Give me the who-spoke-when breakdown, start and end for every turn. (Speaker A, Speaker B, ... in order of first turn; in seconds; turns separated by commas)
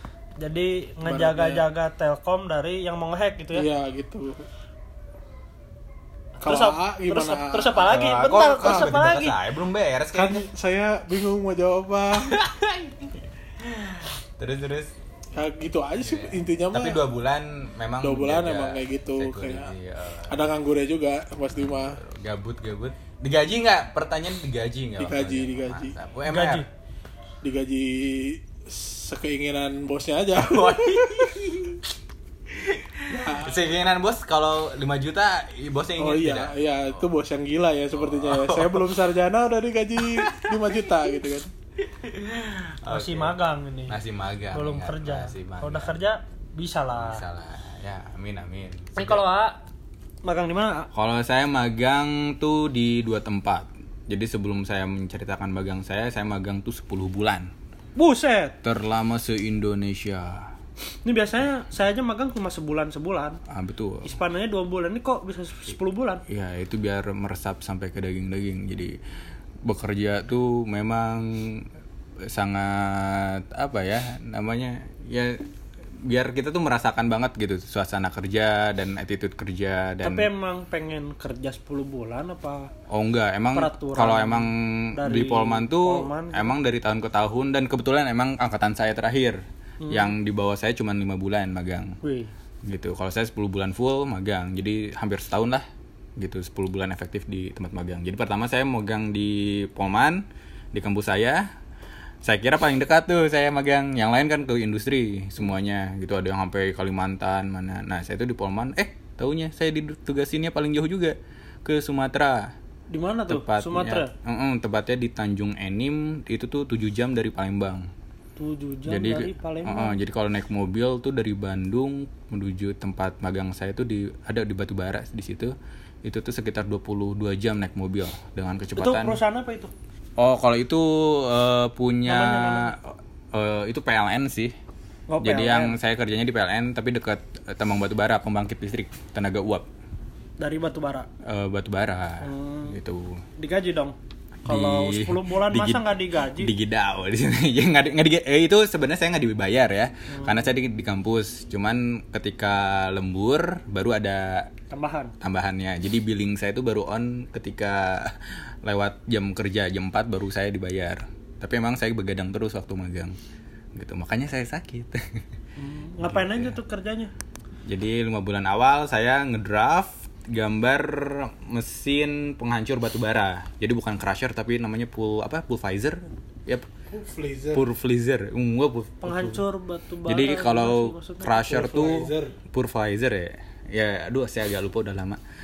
Speaker A: 0.4-3.7, Speaker B: 1.1-1.7, Speaker B: 3.5-4.5, Speaker B: 6.4-7.9, Speaker A: 6.4-9.3, Speaker C: 7.8-10.4, Speaker B: 10.2-12.4, Speaker C: 12.2-14.9, Speaker B: 15.3-17.1, Speaker C: 16.0-20.5, Speaker B: 18.0-19.7, Speaker B: 20.3-22.0, Speaker C: 21.5-26.6, Speaker B: 25.0-25.9, Speaker A: 26.3-26.7, Speaker B: 27.4-31.3, Speaker C: 30.4-31.9, Speaker C: 32.5-37.1, Speaker B: 33.1-33.7, Speaker B: 36.0-41.5, Speaker C: 37.9-39.0, Speaker C: 40.0-41.1, Speaker C: 41.8-46.0, Speaker A: 42.9-44.0, Speaker A: 44.5-47.2, Speaker C: 46.9-49.2, Speaker A: 49.0-49.6, Speaker A: 50.2-50.9, Speaker C: 50.9-57.5, Speaker A: 58.0-58.6, Speaker C: 58.6-60.5, Speaker A: 61.0-63.4, Speaker C: 63.5-64.1, Speaker A: 64.0-66.2, Speaker C: 66.3-69.0, Speaker C: 69.7-71.7, Speaker C: 72.3-75.4, Speaker C: 76.1-80.3, Speaker A: 80.0-82.7, Speaker C: 82.9-89.4, Speaker A: 83.5-86.6, Speaker A: 89.8-90.1, Speaker C: 89.9-92.0, Speaker A: 92.0-92.3, Speaker C: 92.7-95.7, Speaker C: 96.2-101.5, Speaker C: 102.2-112.5, Speaker A: 112.9-114.1, Speaker C: 113.3-117.8, Speaker A: 118.4-120.0, Speaker C: 118.9-125.5, Speaker C: 126.0-129.2, Speaker A: 128.8-129.7, Speaker C: 130.2-134.5, Speaker A: 132.1-132.7, Speaker A: 135.1-135.8, Speaker C: 135.2-139.7, Speaker A: 140.4-141.1, Speaker C: 141.2-143.2, Speaker A: 142.2-142.8, Speaker A: 143.4-146.5, Speaker C: 144.5-154.5, Speaker A: 150.1-150.5, Speaker A: 154.7-155.2, Speaker C: 155.2-163.2, Speaker C: 163.8-165.0, Speaker A: 165.6-167.1, Speaker C: 166.0-166.6, Speaker C: 167.7-176.7, Speaker B: 176.9-177.7, Speaker C: 177.5-179.4, Speaker A: 179.0-181.4, Speaker C: 180.1-185.2, Speaker B: 181.4-182.3